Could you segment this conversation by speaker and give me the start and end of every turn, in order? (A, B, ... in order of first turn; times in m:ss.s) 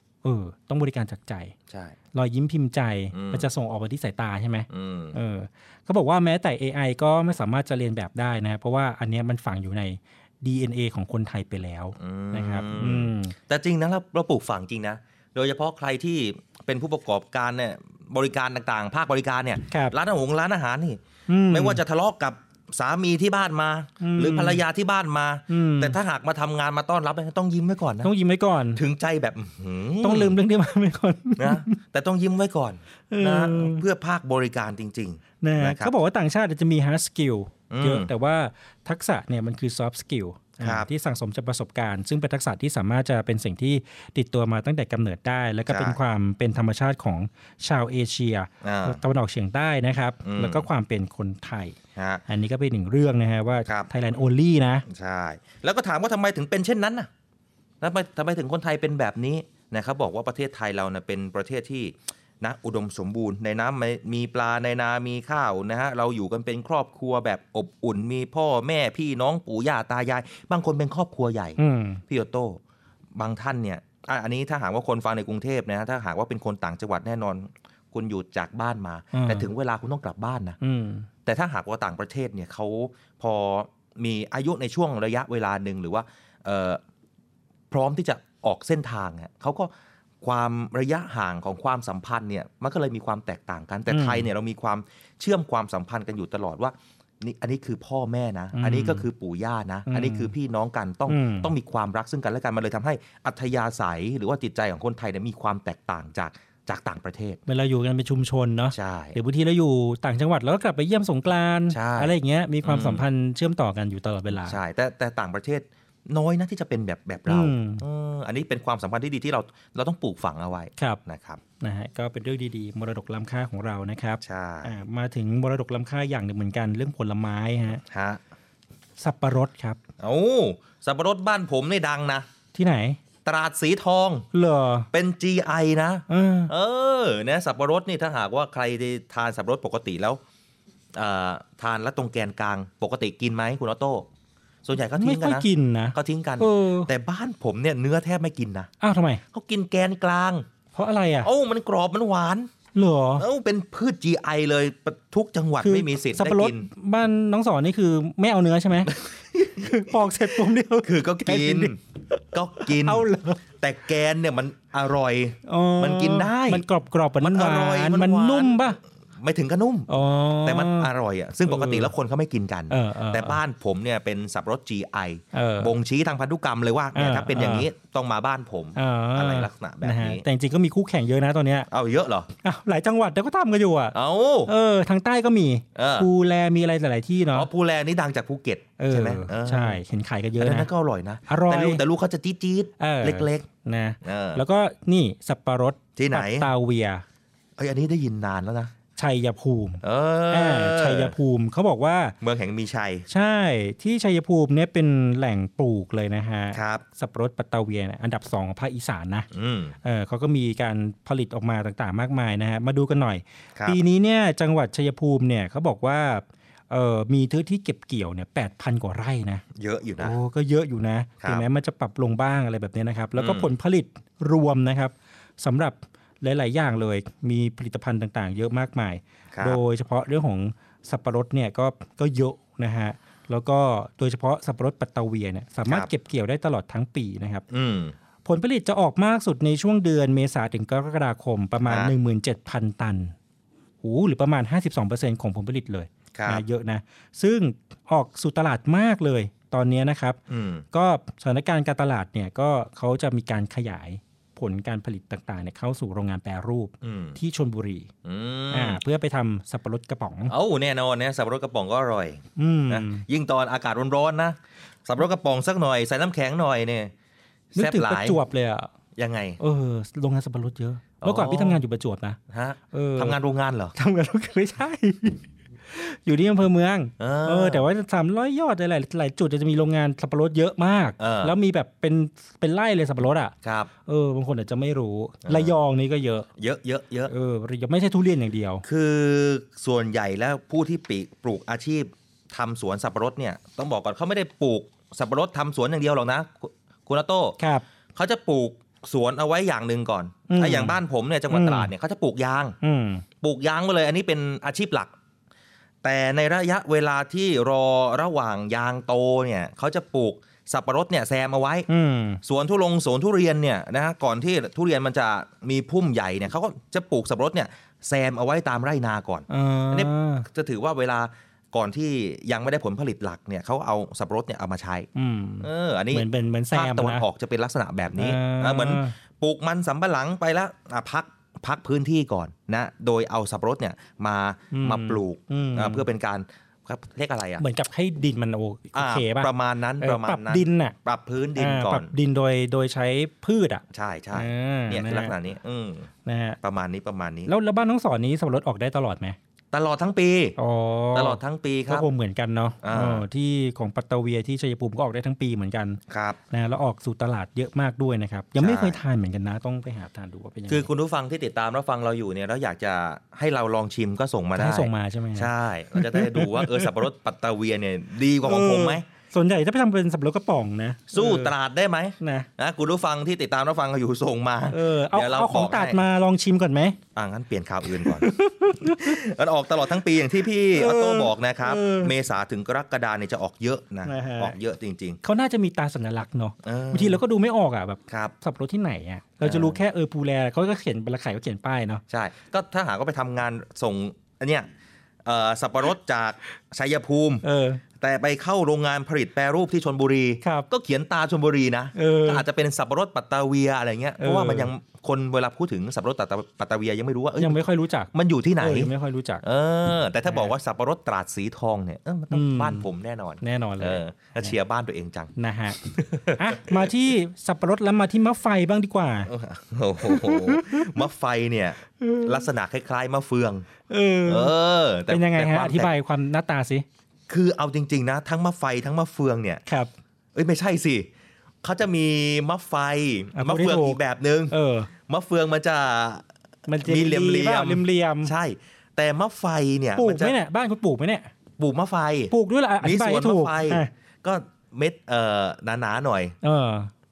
0:00.2-0:01.5 A
0:01.7-0:02.0 B
0:02.1-0:13.4 A
0:03.1-0:03.5 B
0:04.7-0:05.2 B
0:12.0-0:28.1 B
0:19.7-0:20.0 A
0:21.3-0:21.8 A
0:24.0-0:24.6 A
0:25.5-0:26.0 A
0:28.0-0:28.8 A
0:28.8-0:30.4 B
0:30.0-0:31.8 A
0:31.4-0:35.9 B
0:33.1-0:33.8 A
0:35.4-0:51.8 A
0:37.7-0:38.1 B
0:40.6-0:40.9 B
0:45.7-0:46.0 B
0:48.6-0:49.0 B
0:50.2-0:50.7 B
0:52.0-0:52.2 B
0:52.3-0:54.8 A
0:54.9-0:57.1 B
0:57.8-1:12.6 B
1:11.6-1:12.0 A
1:13.2-1:20.6 B
1:19.1-1:19.5 A
1:20.6-1:21.1 A
1:21.3-1:26.8 B
1:27.7-1:47.4 B
1:33.9-1:34.3 A
1:38.5-1:39.1 A
1:39.9-1:40.3 A
1:41.1-1:41.5 A
1:47.5-1:54.6 A
1:48.7-1:49.2 B
1:51.7-1:53.0 B
1:54.3-2:01.4 B
1:57.3-1:57.8 A
2:01.6-2:07.8 A
2:04.2-2:04.7 B
2:07.9-2:08.2 B
2:09.0-2:09.8 A
2:10.0-2:12.3 B
2:12.6-2:13.0 A
2:13.2-2:14.3 B
2:14.3-2:14.9 A
2:14.9-2:20.2 B
2:16.1-2:16.5 A
2:20.9-2:24.1 B
2:24.6-2:28.7 B
2:25.0-2:26.9 A
2:28.8-2:29.2 A
2:29.3-2:30.5 B
2:30.7-2:31.3 A
2:31.2-2:32.5 B
2:32.8-2:33.3 A
2:33.2-2:36.7 B
2:35.6-2:38.9 A
2:38.9-2:40.0 B
2:39.6-2:43.4 A
2:40.8-2:41.8 B
2:42.3-2:46.6 B
2:45.5-2:48.8 A
2:47.2-3:00.2 B
2:49.9-2:50.9 A
2:51.5-2:51.9 A
2:52.7-2:53.4 A
2:55.3-2:55.7 A
2:57.0-2:57.7 A
2:58.8-3:01.7 A
3:01.7-3:02.3 B
3:02.4-3:04.0 A
3:03.9-3:04.5 B
3:04.5-3:07.5 A
3:05.8-3:06.1 B
3:07.3-3:09.8 B
3:08.8-3:10.7 A
3:10.4-3:13.5 B
3:11.3-3:11.8 A
3:12.8-3:17.0 A
3:14.0-3:14.4 B
3:16.0-3:16.5 B
3:17.6-3:18.7 B
3:19.0-3:22.2 A
3:19.8-3:21.1 B
3:22.2-3:23.1 B
3:23.1-3:29.3 A
3:26.5-3:26.8 B
3:29.3-3:29.8 B
3:29.8-3:39.4 A
3:39.6-3:40.2 B
3:40.0-3:57.4 A
3:43.2-3:43.5 B
3:49.3-3:49.6 B
3:57.5-3:58.0 B
3:58.2-4:03.2 A
4:01.6-4:01.9 B
4:03.8-4:10.2 A
4:06.1-4:06.4 B
4:10.3-4:10.6 B
4:10.7-4:17.9 A
4:16.8-4:17.2 B
4:18.0-4:18.8 B
4:18.5-4:20.3 A
4:20.3-4:26.9 B
4:22.4-4:23.0 A
4:27.6-4:28.2 B
4:27.6-4:28.7 A
4:29.0-4:29.4 B
4:29.4-4:32.2 A
4:31.0-4:31.6 B
4:32.3-4:33.8 B
4:32.7-4:33.2 A
4:33.8-4:43.3 A
4:37.0-4:37.7 B
4:41.0-4:41.3 B
4:43.4-4:43.7 B
4:43.9-4:46.3 A
4:45.2-4:45.6 B
4:46.4-4:47.1 B
4:47.1-4:48.6 A
4:48.6-4:57.4 B
4:57.4-4:57.6 A
4:58.0-5:02.6 B
5:00.3-5:01.7 A
5:02.6-5:03.0 A
5:03.2-5:04.9 B
5:05.8-5:11.7 B
5:11.7-5:12.2 A
5:12.2-5:24.9 B
5:19.3-5:20.3 A
5:25.0-5:27.0 A
5:25.4-5:37.4 B
5:28.0-5:29.0 A
5:34.5-5:35.8 A
5:37.4-5:40.8 A
5:38.7-5:41.9 B
5:41.4-5:45.2 A
5:43.7-5:45.9 B
5:46.1-5:46.4 A
5:46.4-5:47.3 B
5:47.3-5:49.2 A
5:49.5-5:50.4 B
5:50.4-6:00.7 A
5:50.9-5:51.9 B
5:52.6-5:53.0 B
5:55.9-5:56.2 B
5:58.4-5:58.8 B
6:00.5-6:08.8 B
6:04.4-6:06.8 A
6:08.2-6:11.3 A
6:10.9-6:15.8 B
6:12.0-6:12.3 A
6:14.5-6:16.8 A
6:17.0-6:25.0 B
6:17.7-6:19.0 A
6:20.5-6:21.9 A
6:23.8-6:24.4 A
6:25.0-6:31.8 A
6:26.4-6:27.0 B
6:27.9-6:28.1 B
6:29.2-6:29.6 B
6:31.9-6:34.5 B
6:35.0-6:37.2 B
6:37.2-6:37.6 A
6:37.8-6:55.1 B
6:41.8-6:42.2 A
6:44.0-6:44.5 A
6:47.2-6:49.2 A
6:50.1-6:50.3 A
6:52.1-6:52.7 A
6:53.2-6:54.4 A
6:55.2-6:59.1 A
6:55.6-6:56.7 B
6:59.1-7:03.5 B
6:59.8-7:00.8 A
7:01.8-7:02.2 A
7:03.7-7:04.3 A
7:04.1-7:05.7 B
7:04.9-7:06.6 A
7:07.1-7:09.4 B
7:10.1-7:10.9 B
7:11.4-7:14.3 B
7:13.2-7:13.8 A
7:14.3-7:14.7 A
7:14.9-7:16.1 B
7:16.5-7:18.1 A
7:16.6-7:20.2 B
7:19.8-7:21.1 A
7:21.4-7:26.2 B
7:22.1-7:23.7 A
7:26.2-7:26.7 A